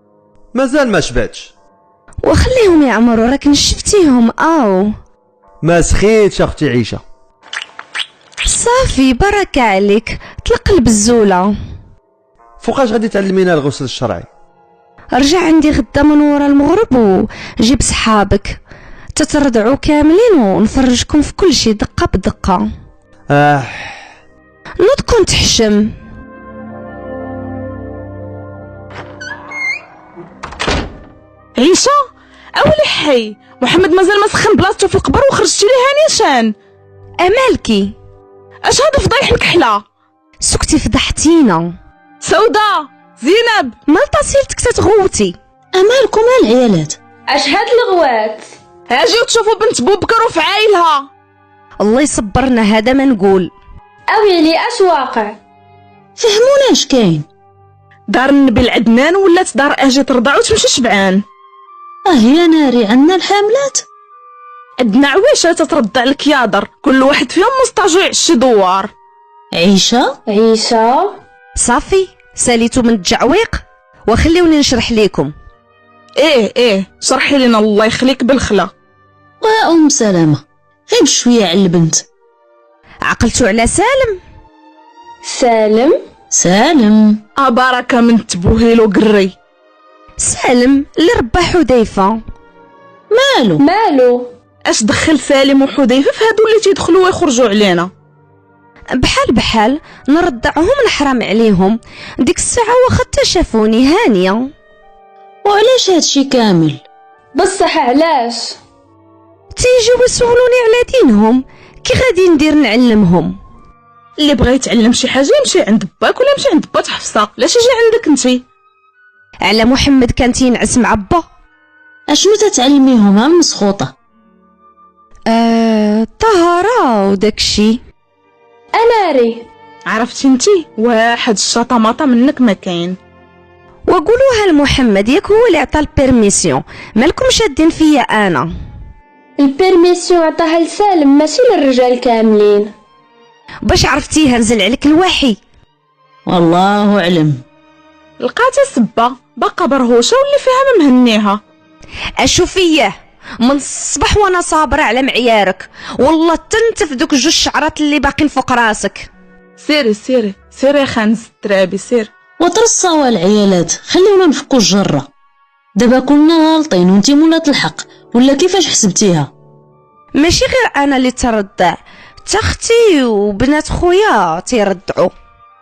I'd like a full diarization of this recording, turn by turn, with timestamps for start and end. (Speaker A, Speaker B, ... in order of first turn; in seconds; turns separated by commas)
Speaker A: 0.5-1.5, Speaker B: 2.2-5.0, Speaker A: 5.6-7.0, Speaker B: 8.5-11.5, Speaker A: 12.6-14.3, Speaker B: 15.1-18.6, Speaker B: 19.1-22.7, Speaker A: 23.3-24.0, Speaker B: 24.8-25.9, Speaker C: 31.6-32.0, Speaker C: 32.5-36.5, Speaker B: 37.2-37.9, Speaker C: 38.6-39.8, Speaker B: 40.4-41.7, Speaker C: 42.2-43.8, Speaker B: 43.9-45.4, Speaker D: 45.7-47.0, Speaker E: 47.3-48.5, Speaker C: 48.9-51.0, Speaker B: 51.8-53.5, Speaker E: 54.1-55.4, Speaker D: 56.2-57.2, Speaker C: 58.1-61.2, Speaker D: 62.1-63.8, Speaker C: 64.8-68.9, Speaker D: 69.5-70.2, Speaker E: 70.3-71.2, Speaker B: 71.6-75.3, Speaker C: 76.2-78.7, Speaker D: 79.4-82.0, Speaker B: 83.1-84.2, Speaker E: 85.2-86.0, Speaker D: 86.3-87.2, Speaker C: 87.4-89.3, Speaker B: 90.2-92.2, Speaker D: 93.1-93.6, Speaker E: 93.6-94.3, Speaker C: 94.7-97.9, Speaker B: 99.0-104.5, Speaker D: 105.4-106.8, Speaker E: 107.3-108.6, Speaker B: 109.5-113.4, Speaker C: 114.2-118.4, Speaker B: 119.4-121.2, Speaker D: 122.1-123.9, Speaker B: 125.3-127.8, Speaker E: 128.8-129.5, Speaker C: 129.9-133.0, Speaker B: 133.9-138.5, Speaker E: 139.4-142.7, Speaker B: 143.6-145.4, Speaker D: 146.3-147.4, Speaker C: 148.2-151.4, Speaker B: 152.2-159.1, Speaker C: 159.6-162.1, Speaker D: 162.4-165.1, Speaker D: 165.8-169.3, Speaker B: 170.2-175.1